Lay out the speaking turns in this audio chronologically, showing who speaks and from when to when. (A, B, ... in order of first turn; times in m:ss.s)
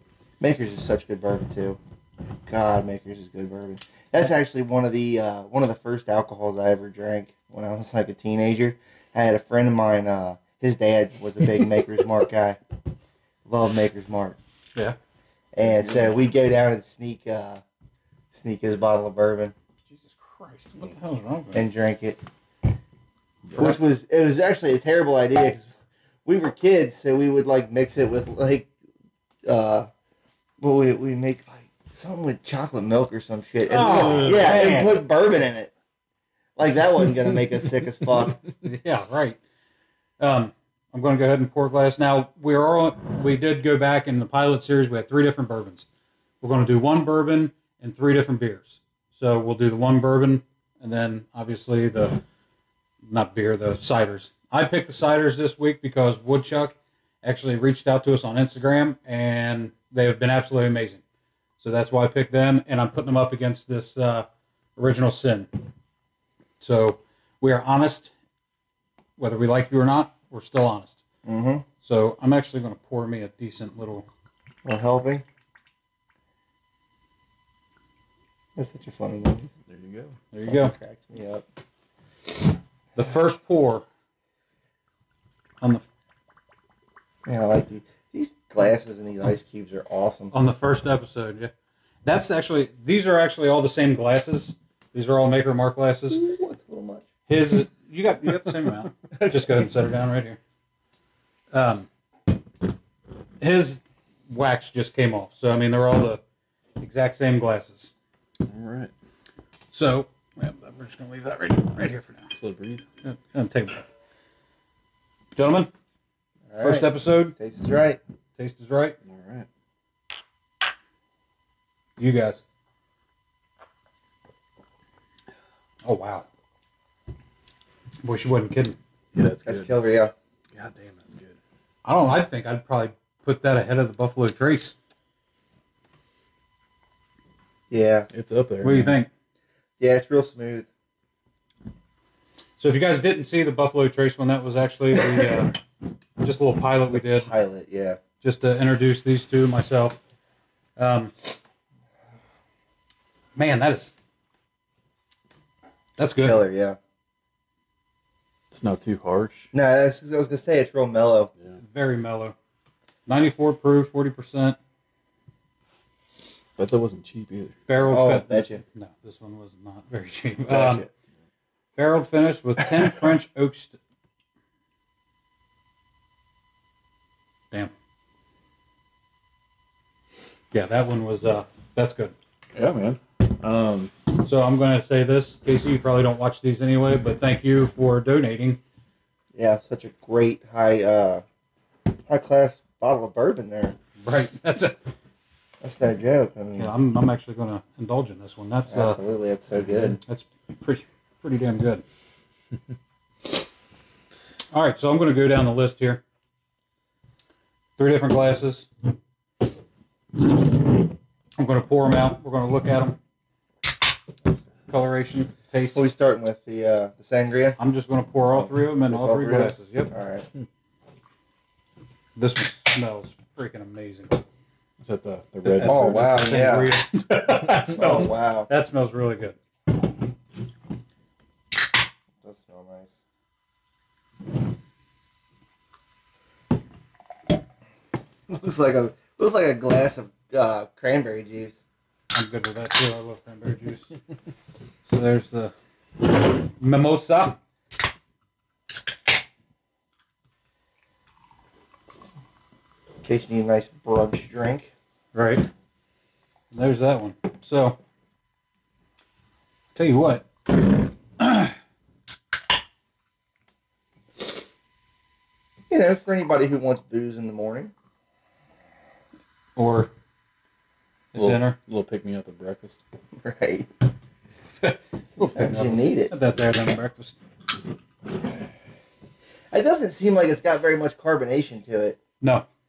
0:00.4-0:01.8 A
0:02.5-0:12.6 A
0:13.4-0:14.4 A
0:15.5-0:17.6 A
0:15.6-0:16.2 B
0:18.3-0:19.5 A
0:19.9-0:21.6 C
0:21.5-0:22.2 A
0:23.5-0:23.8 B
0:23.6-0:25.7 A
0:26.2-0:28.7 A
0:29.4-0:29.9 A
0:30.6-0:35.7 A
0:33.7-0:35.0 C
0:33.8-0:34.8 B
0:36.6-0:38.4 A
0:38.6-0:39.4 C
0:40.2-0:45.9 C
0:46.4-0:52.2 C
0:53.1-1:01.0 C
1:01.6-1:05.5 C
1:06.6-1:08.1 C
1:09.2-1:11.0 C
1:11.2-1:11.6 A
1:11.8-1:14.1 C
1:14.6-1:15.2 A
1:18.6-1:19.5 A
1:19.7-1:20.2 B
1:20.3-1:20.8 C
1:20.5-1:21.4 A
1:23.0-1:23.8 C
1:25.6-1:25.9 C
1:27.2-1:30.3 A
1:30.3-1:31.5 C
1:32.0-1:36.2 C
1:36.1-1:37.1 A
1:37.3-1:40.4 C
1:41.5-1:41.9 C
1:43.4-1:46.2 C
1:46.8-1:47.9 C
1:48.4-1:48.9 B
1:49.7-1:52.4 C
1:52.4-1:52.8 B
1:53.0-1:53.9 C
1:55.4-1:55.7 C
1:56.5-1:58.0 A
1:56.6-1:57.4 C
1:58.4-1:59.0 C
1:59.0-1:59.5 B
2:02.0-2:02.4 C
2:05.8-2:06.3 C
2:08.0-2:08.8 C
2:09.1-2:09.7 B
2:09.5-2:10.1 A
2:10.5-2:11.4 B
2:11.8-2:14.8 C
2:17.7-2:18.1 A
2:18.1-2:19.0 B
2:18.6-2:19.1 C
2:19.8-2:20.7 A
2:22.6-2:25.6 C
2:26.2-2:27.3 C
2:26.9-2:28.0 A
2:28.2-2:30.0 C
2:30.8-2:31.1 C
2:33.4-2:33.9 C
2:36.0-2:36.4 C
2:36.2-2:36.8 A
2:38.5-2:39.5 B
2:39.5-2:41.3 A
2:41.6-2:42.4 C
2:43.1-2:44.6 C
2:46.6-2:47.6 B
2:47.7-2:50.9 C
2:47.8-2:48.6 A
2:50.5-2:50.9 A
2:51.8-2:53.8 C
3:00.5-3:02.2 C
3:02.5-3:03.9 B
3:04.2-3:08.6 C
3:09.4-3:11.2 A
3:12.1-3:13.8 A
3:14.0-3:14.8 C
3:15.6-3:16.7 A
3:16.6-3:19.0 C
3:18.7-3:20.0 A
3:19.9-3:21.8 C
3:24.5-3:26.0 C
3:27.8-3:28.7 C
3:31.4-3:33.0 C
3:34.7-3:35.9 C
3:35.7-3:37.6 A
3:37.6-3:39.9 C
3:38.9-3:40.3 A
3:42.2-3:44.2 C
3:44.8-3:46.3 B
3:45.4-3:49.4 C
3:45.6-3:46.8 A
3:47.7-3:48.5 A
3:52.2-3:52.9 A
3:58.3-4:01.6 A
4:02.1-4:03.9 C
4:04.8-4:05.5 C
4:06.2-4:07.4 C
4:13.0-4:14.7 A
4:15.1-4:15.5 C
4:16.5-4:17.8 C
4:19.7-4:21.6 C
4:25.7-4:27.7 A
4:29.6-4:29.9 C
4:31.1-4:31.6 C
4:31.2-4:32.8 B
4:33.2-4:33.7 A
4:34.6-4:37.2 C
4:35.2-4:36.1 A
4:39.5-4:42.0 A